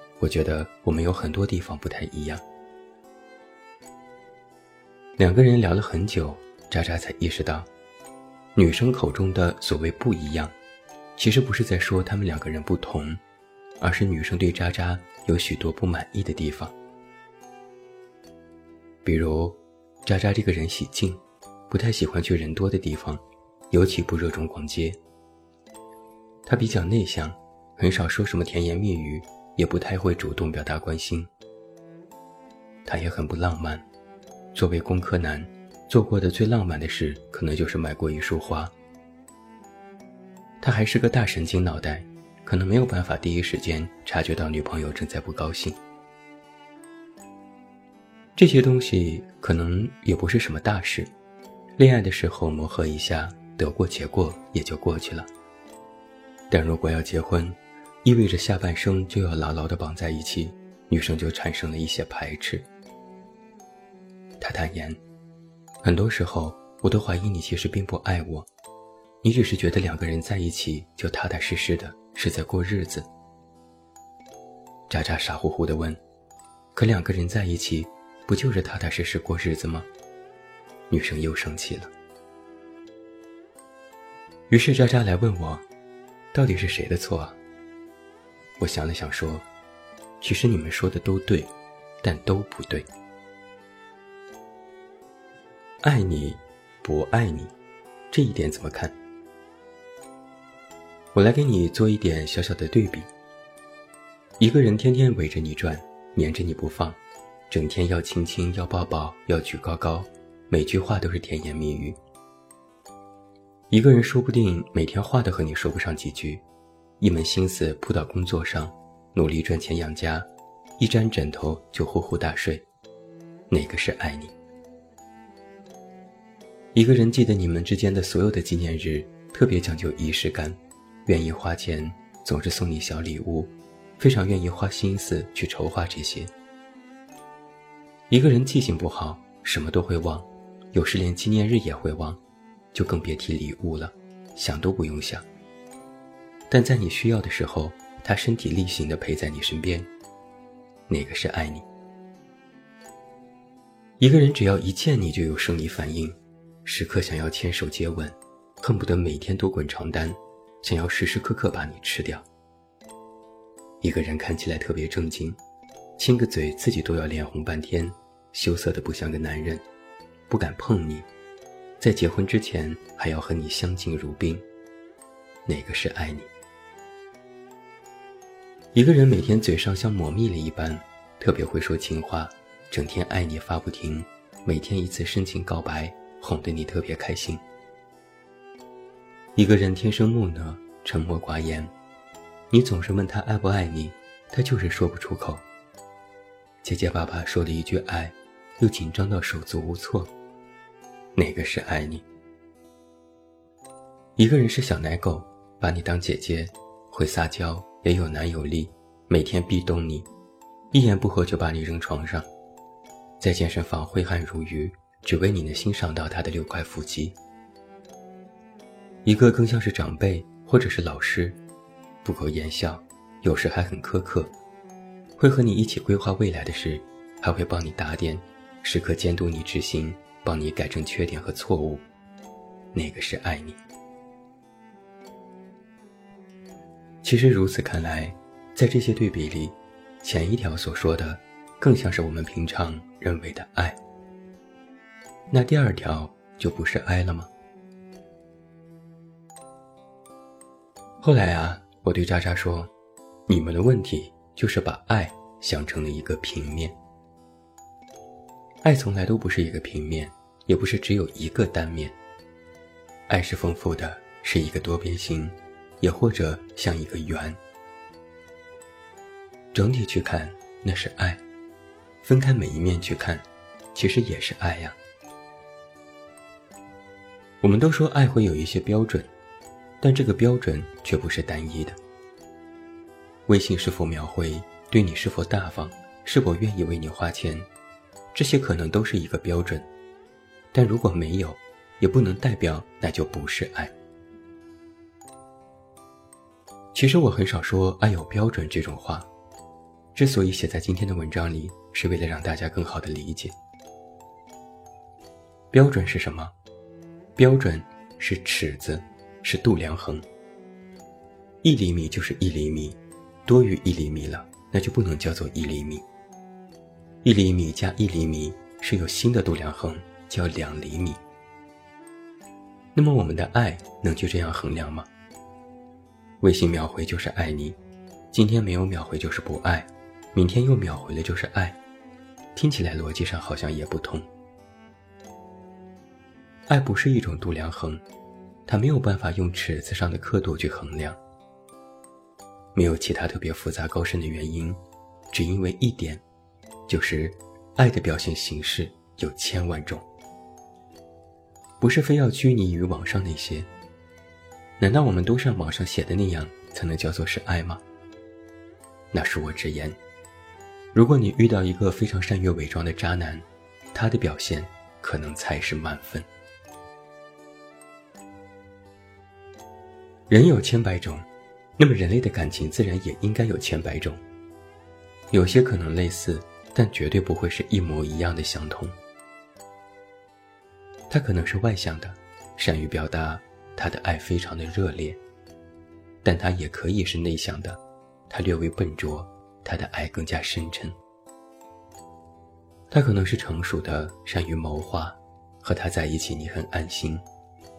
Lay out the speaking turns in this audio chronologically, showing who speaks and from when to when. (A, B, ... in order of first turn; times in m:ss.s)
0:00.2-0:02.4 A
0:05.2-0:07.7 A
0:08.5-0:10.5 A
0:11.2-0:13.2 A
0:13.8-0:16.7 A
0:19.0-0:25.0 A
0:26.4-0:31.3 A
0:32.8-0:33.8 A
0:34.5-0:38.7 A
0:40.6-0:45.8 A
0:48.4-0:51.1 A
0:51.8-0:55.3 A
0:56.5-1:02.7 A
1:04.4-1:05.0 A
1:05.8-1:08.5 A
1:09.2-1:13.1 A
1:14.9-1:16.0 A
1:16.7-1:19.9 A
1:20.9-1:21.9 A
1:24.5-1:25.6 A
1:26.3-1:27.4 A
1:28.6-1:29.4 A
1:30.2-1:32.9 A
1:35.8-1:37.5 A
1:38.1-1:39.0 A
1:41.1-1:43.1 A
1:44.4-1:52.0 A
1:53.7-1:56.4 A
1:57.0-2:00.3 A
2:00.8-2:02.6 A
2:03.5-2:04.3 A
2:06.7-2:16.3 A
2:18.1-2:22.2 A
2:22.7-2:25.2 A
2:26.5-2:29.9 A
2:30.9-2:31.7 A
2:34.0-2:42.2 A
2:43.8-2:45.4 A
2:46.0-2:49.6 A
2:50.3-2:51.1 A
2:51.8-2:54.4 A
2:55.4-2:56.3 A
2:58.7-3:07.4 A
3:09.3-3:11.7 A
3:12.5-3:15.4 A
3:16.6-3:20.1 A
3:21.1-3:22.0 A
3:24.2-3:30.1 A
3:30.7-3:32.3 A
3:33.2-3:37.2 A
3:39.0-3:41.4 A
3:42.0-3:44.3 A
3:45.2-3:51.8 A
3:52.7-3:53.6 A
3:57.0-4:03.8 A
4:05.3-4:07.3 A
4:11.0-4:12.7 A
4:13.3-4:16.8 A
4:18.6-4:22.0 A
4:23.1-4:27.4 A
4:29.5-4:31.2 A
4:32.0-4:34.8 A
4:37.4-4:39.1 A
4:39.8-4:41.8 A
4:43.3-4:47.5 A
4:48.1-4:49.7 A
4:50.5-4:53.7 A
4:56.7-4:59.1 A
4:59.9-5:03.3 A
5:05.5-5:06.3 A
5:07.2-5:10.0 A
5:11.4-5:15.8 A
5:17.0-5:21.0 A
5:22.7-5:24.9 A
5:26.2-5:27.6 A
5:28.1-5:31.6 A
5:32.3-5:34.1 A
5:36.5-5:37.8 A
5:38.5-5:41.0 A
5:42.5-5:46.0 A
5:46.7-5:49.8 A
5:51.6-5:53.5 A
5:54.6-5:57.6 A
5:58.9-5:59.8 A
6:00.7-6:06.1 A
6:10.1-6:11.1 A
6:11.6-6:14.0 A
6:15.1-6:18.8 A
6:20.9-6:25.0 A
6:26.0-6:30.8 A
6:32.7-6:37.0 A